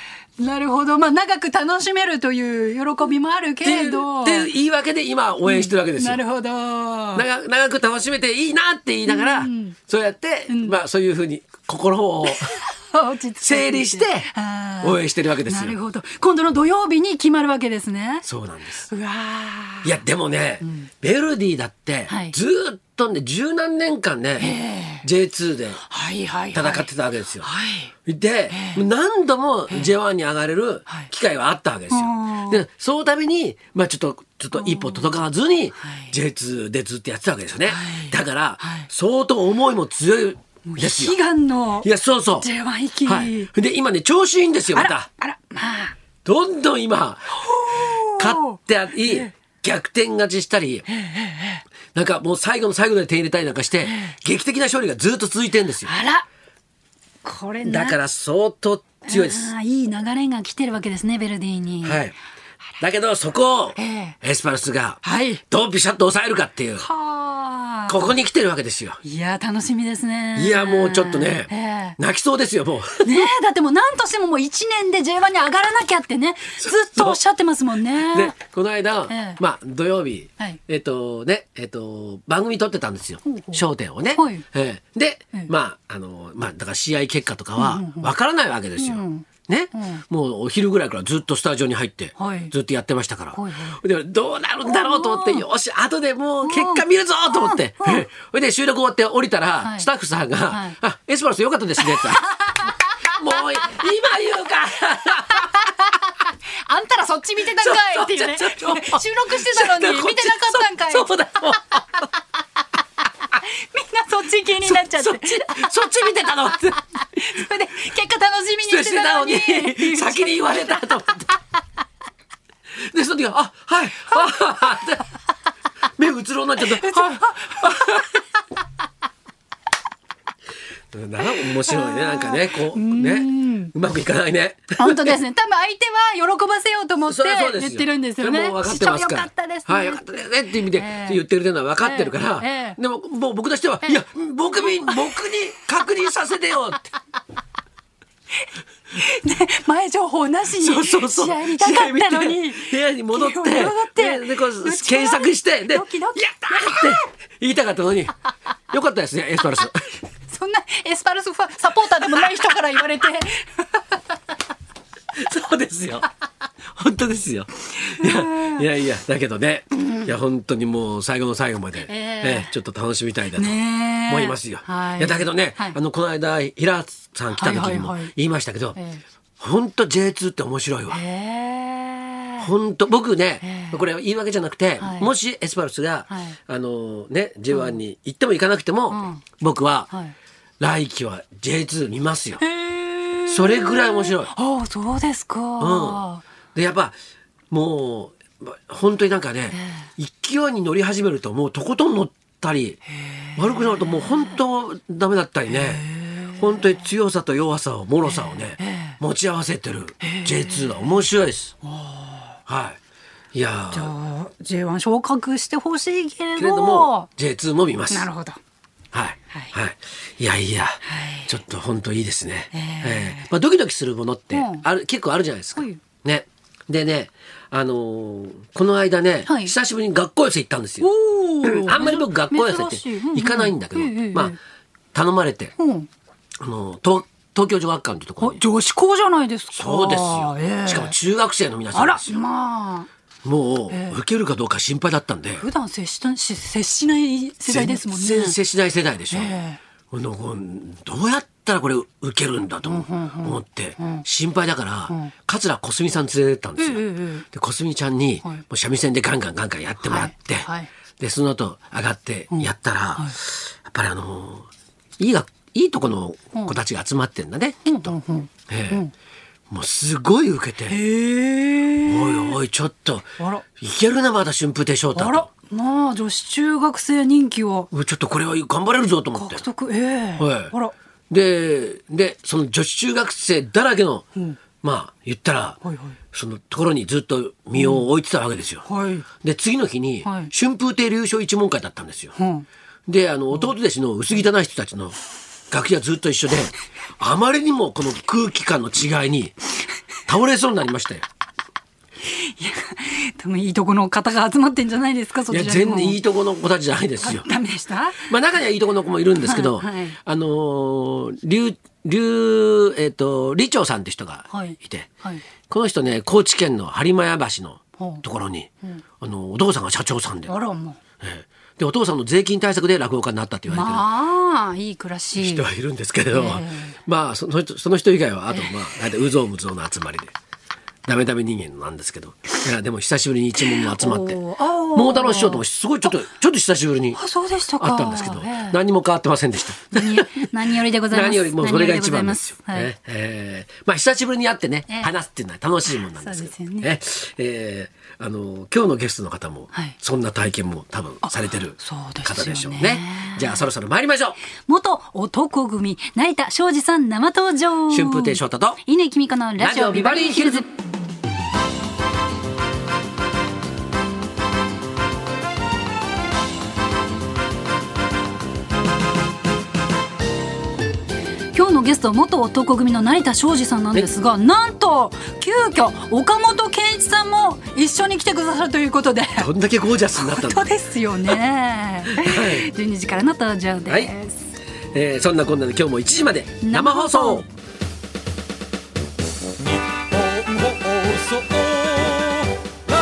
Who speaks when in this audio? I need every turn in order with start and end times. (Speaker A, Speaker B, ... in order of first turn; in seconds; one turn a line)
Speaker A: 0.4-4.5
Speaker B: 3.6-6.2
Speaker A: 5.4-7.3
Speaker B: 7.2-12.6
Speaker A: 9.1-9.8
Speaker A: 10.5-10.8
Speaker A: 12.2-18.3
Speaker B: 13.4-14.3
Speaker B: 14.8-15.8
Speaker B: 18.2-18.9
Speaker A: 18.9-20.0
Speaker B: 19.8-25.8
Speaker A: 20.6-20.9
Speaker A: 22.1-22.4
Speaker A: 24.4-25.1
Speaker A: 25.9-26.9
Speaker B: 26.5-27.5
Speaker A: 27.4-27.9
Speaker B: 28.1-41.2
Speaker A: 28.5-28.9
Speaker A: 31.9-32.6
Speaker A: 34.5-35.1
Speaker A: 35.8-36.1
Speaker A: 37.6-38.9
Speaker A: 40.6-43.5
Speaker B: 41.8-42.5
Speaker B: 43.0-45.1
Speaker A: 44.7-46.0
Speaker B: 46.2-47.4
Speaker A: 47.4-49.3
Speaker B: 48.2-50.9
Speaker A: 50.9-51.6
Speaker B: 51.9-55.9
Speaker A: 53.8-54.1
Speaker A: 55.8-56.3
Speaker A: 57.2-58.0
Speaker B: 57.6-59.5
Speaker A: 59.1-62.0
Speaker B: 61.8-62.1
Speaker B: 62.8-66.9
Speaker A: 63.8-64.2
Speaker A: 65.0-65.4
Speaker A: 66.8-68.2
Speaker B: 67.9-69.0
Speaker A: 69.0-72.0
Speaker B: 70.4-73.2
Speaker A: 73.0-78.4
Speaker B: 76.7-77.2
Speaker B: 78.0-102.2
Speaker A: 79.1-79.4
Speaker A: 83.2-84.5
Speaker A: 87.6-88.1
Speaker A: 88.8-90.0
Speaker A: 92.2-92.5
Speaker A: 93.3-93.8
Speaker A: 94.7-95.5
Speaker A: 96.4-98.0
Speaker A: 99.6-99.9
Speaker A: 100.5-100.8
Speaker A: 101.8-103.8
Speaker B: 103.2-105.6
Speaker A: 105.4-111.1
Speaker B: 107.5-111.8
Speaker A: 113.3-120.9
Speaker B: 114.6-117.5
Speaker B: 118.6-121.3
Speaker B: 122.8-125.1
Speaker B: 126.0-128.2
Speaker A: 126.6-127.8
Speaker B: 130.9-135.2
Speaker A: 131.4-133.7
Speaker A: 134.8-140.1
Speaker B: 137.1-146.9
Speaker A: 140.7-141.2
Speaker A: 141.8-142.8
Speaker A: 144.6-145.2
Speaker A: 148.9-157.0
Speaker B: 150.5-158.1
Speaker B: 158.7-159.9
Speaker A: 160.3-164.0
Speaker B: 165.2-166.1
Speaker B: 166.7-178.8
Speaker A: 168.0-168.7
Speaker A: 171.8-172.5
Speaker A: 173.4-175.8
Speaker A: 177.3-178.1
Speaker A: 178.8-179.0
Speaker B: 179.4-181.0
Speaker A: 180.9-182.5
Speaker B: 182.4-189.9
Speaker A: 183.4-183.8
Speaker A: 184.8-185.1
Speaker A: 186.1-186.4
Speaker A: 187.5-187.8
Speaker A: 188.9-189.2
Speaker B: 190.6-192.4
Speaker A: 192.4-196.2
Speaker B: 193.3-194.3
Speaker B: 195.6-196.0
Speaker B: 196.6-197.0
Speaker B: 197.5-202.8
Speaker A: 199.5-199.8
Speaker A: 203.0-204.4
Speaker B: 203.4-205.8
Speaker A: 205.5-206.8
Speaker B: 206.4-211.5
Speaker A: 208.0-209.0
Speaker A: 210.0-211.0
Speaker A: 211.7-212.2
Speaker B: 212.5-212.8
Speaker B: 213.3-213.9
Speaker A: 213.7-217.1
Speaker B: 216.4-218.1
Speaker A: 217.9-218.4
Speaker B: 218.9-230.9
Speaker A: 220.8-221.3
Speaker A: 222.5-223.3
Speaker A: 224.3-224.7
Speaker A: 225.6-225.8
Speaker A: 229.2-229.5
Speaker A: 230.8-234.4
Speaker B: 231.4-234.3
Speaker B: 234.9-235.5
Speaker A: 235.6-235.9
Speaker B: 236.4-238.4
Speaker A: 238.2-240.9
Speaker B: 239.5-242.2
Speaker A: 241.7-242.9
Speaker B: 243.2-245.5
Speaker A: 243.7-244.0
Speaker A: 245.4-248.4
Speaker B: 247.5-249.3
Speaker A: 249.1-249.6
Speaker B: 249.9-264.5
Speaker A: 252.6-254.1
Speaker A: 256.6-257.2
Speaker A: 259.8-260.7
Speaker A: 262.3-263.2
Speaker B: 265.0-267.9
Speaker A: 266.3-266.6
Speaker A: 267.7-268.9
Speaker B: 268.5-268.8
Speaker B: 269.5-270.8
Speaker A: 270.7-272.4
Speaker B: 271.9-275.3
Speaker A: 274.9-277.7
Speaker B: 277.7-279.4
Speaker A: 279.1-280.8
Speaker B: 280.2-280.5
Speaker B: 281.1-284.1
Speaker B: 284.6-285.6
Speaker A: 285.6-286.0
Speaker B: 286.1-288.6
Speaker A: 287.6-287.9
Speaker A: 288.6-289.1
Speaker B: 289.2-292.1
Speaker A: 290.0-290.3
Speaker A: 292.2-292.5
Speaker B: 292.9-295.0
Speaker B: 295.5-299.3
Speaker B: 300.1-301.1
Speaker A: 302.1-306.0
Speaker B: 305.3-307.3
Speaker A: 307.0-308.1
Speaker B: 308.1-314.9
Speaker A: 309.2-310.0
Speaker A: 314.3-315.2
Speaker B: 315.5-318.5
Speaker A: 317.8-318.0
Speaker B: 319.0-320.3
Speaker A: 320.3-320.8
Speaker B: 321.0-323.9
Speaker A: 323.5-325.4
Speaker B: 325.2-330.1
Speaker A: 326.1-326.8
Speaker B: 330.9-334.2
Speaker A: 333.4-335.4
Speaker B: 334.8-337.0
Speaker A: 336.9-338.6
Speaker B: 337.6-354.2
Speaker A: 339.7-342.7
Speaker A: 344.7-344.9
Speaker A: 345.7-346.7
Speaker A: 351.0-353.4
Speaker A: 354.4-360.5
Speaker B: 357.7-358.6
Speaker B: 359.4-360.5
Speaker A: 371.3-379.3
Speaker B: 379.2-380.5
Speaker A: 379.9-384.3
Speaker B: 381.9-382.5
Speaker B: 383.7-383.9
Speaker B: 384.7-387.3
Speaker A: 386.4-387.3